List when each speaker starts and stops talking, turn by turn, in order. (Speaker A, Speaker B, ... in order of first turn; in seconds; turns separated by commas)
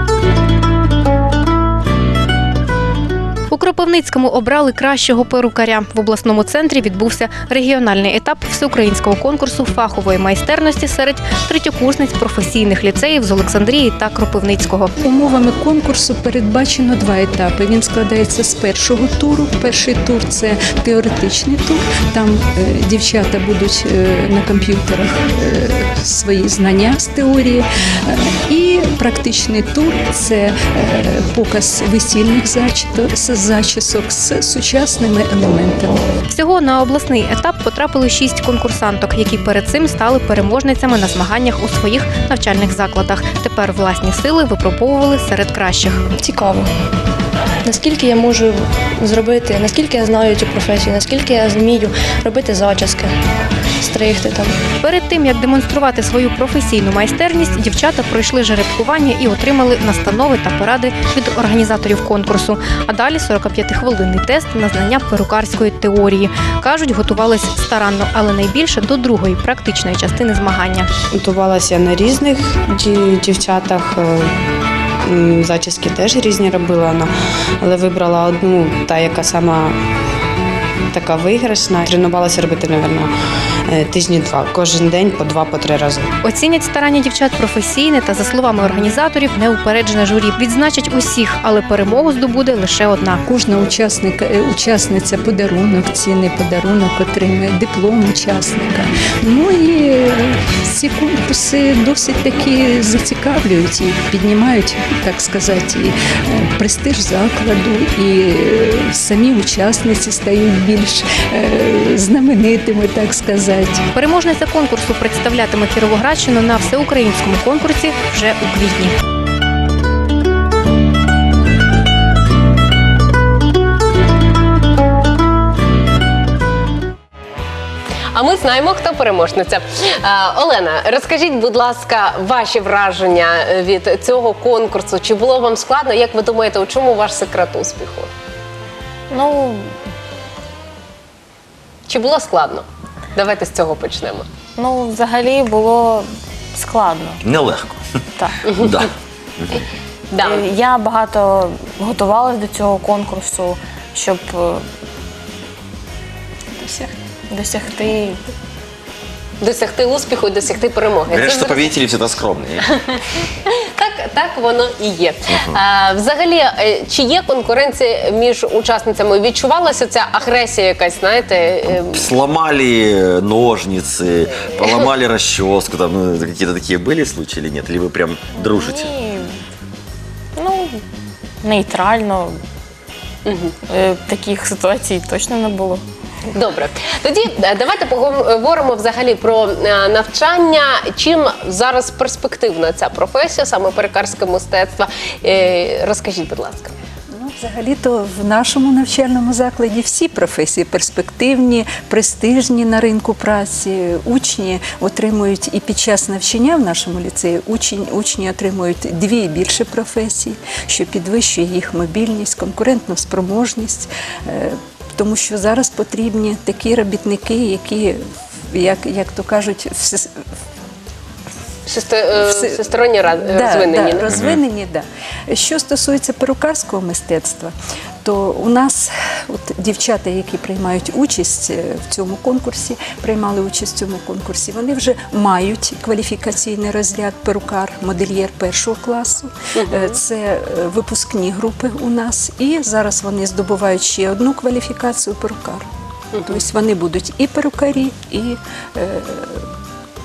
Speaker A: 3.5-14.9, Speaker B: 15.0-36.0, Speaker A: 36.3-46.0, Speaker C: 46.2-46.6, Speaker C: 47.7-53.1, Speaker C: 53.8-54.5, Speaker A: 54.8-70.9, Speaker D: 71.1-74.3, Speaker D: 75.0-79.8, Speaker D: 80.9-83.1, Speaker D: 83.7-86.1, Speaker A: 86.2-93.2, Speaker B: 93.3-113.9, Speaker A: 113.9-119.0, Speaker E: 128.1-138.1, Speaker F: 139.1-139.7, Speaker E: 141.9-144.3, Speaker F: 144.6-147.2, Speaker G: 147.2-147.8, Speaker E: 148.5-148.9, Speaker G: 148.5-149.7, Speaker E: 150.1-150.4, Speaker F: 150.2-154.6, Speaker F: 157.3-158.2, Speaker E: 159.4-161.7, Speaker G: 161.1-162.6, Speaker E: 162.8-172.1, Speaker G: 165.3-165.6, Speaker G: 171.7-178.9, Speaker F: 178.4-179.3, Speaker F: 180.4-180.8, Speaker F: 181.4-182.4, Speaker E: 183.2-183.5, Speaker F: 183.7-185.8, Speaker E: 186.3-196.7, Speaker B: 197.1-218.0, Speaker B: 218.5-220.1, Speaker E: 221.7-224.1, Speaker B: 222.2-227.5, Speaker G: 224.1-224.4, Speaker B: 228.0-245.7, Speaker E: 239.6-239.9, Speaker E: 246.1-246.4, Speaker B: 246.2-249.5